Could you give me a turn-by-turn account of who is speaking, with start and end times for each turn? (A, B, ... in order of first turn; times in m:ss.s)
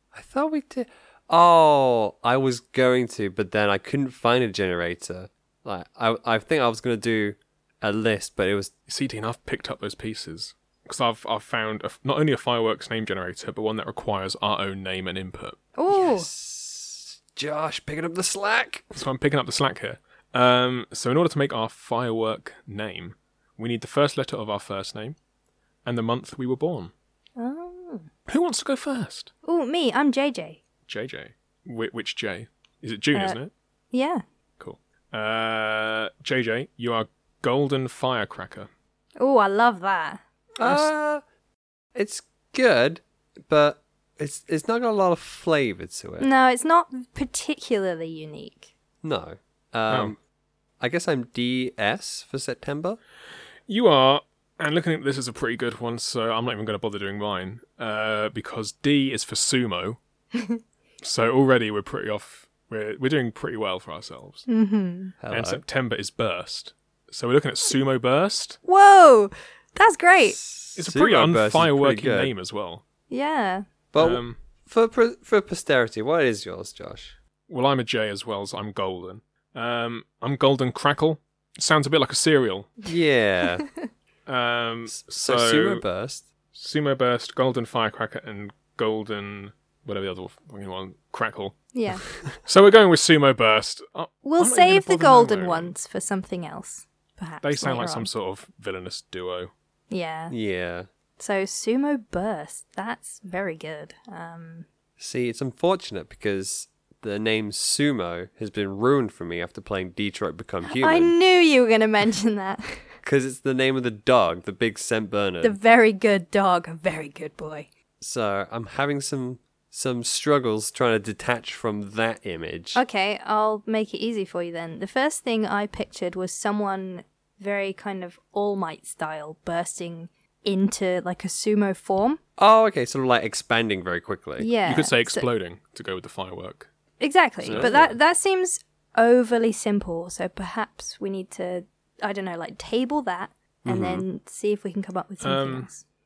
0:00.1-0:08.7 A
0:08.9-0:15.6 B
0:15.8-0:16.3 C
0:15.9-0:19.0 A
0:19.0-0:25.2 B
0:25.8-0:26.9 B
0:27.4-0:28.1 C
0:28.3-0:29.3 B
0:29.4-0:30.6 C
0:30.9-0:33.5 B
0:33.9-0:34.2 C
0:34.6-0:38.7 B
0:39.2-0:40.2 C
0:40.6-0:41.2 A
0:40.6-0:40.9 B
0:41.9-0:46.3 A
0:46.2-0:48.7 C
0:49.0-0:50.2 A
0:49.9-0:50.1 B
0:50.8-0:53.0 A
0:53.7-1:00.0 B
1:01.0-1:04.5 B
1:04.5-1:05.1 C
1:05.2-1:05.6 A
1:05.3-1:08.6 B
1:08.6-1:10.4 C
1:10.2-1:12.3 A
1:10.8-1:12.8 B
1:13.1-1:13.6 C
1:13.9-1:17.1 A
1:14.0-1:14.4 B
1:17.5-1:22.8 B
1:22.9-1:23.6 A
1:24.2-1:25.8 B
1:24.9-1:26.3 A
1:26.5-1:31.6 B
1:31.7-1:32.0 C
1:32.4-1:35.7 B
1:34.2-1:38.1 C
1:37.4-1:39.5 B
1:39.9-1:40.3 C
1:40.3-1:40.9 A
1:41.2-1:44.6 C
1:45.0-1:51.1 A
1:50.6-1:52.9 C
1:53.0-1:55.6 A
1:55.4-1:57.7 C
1:58.0-2:02.8 A
2:02.7-2:12.2 C
2:12.4-2:14.5 A
2:14.4-2:15.2 C
2:14.6-2:16.7 B
2:17.0-2:25.8 C
2:17.4-2:17.9 A
2:23.6-2:24.0 A
2:25.2-2:25.7 B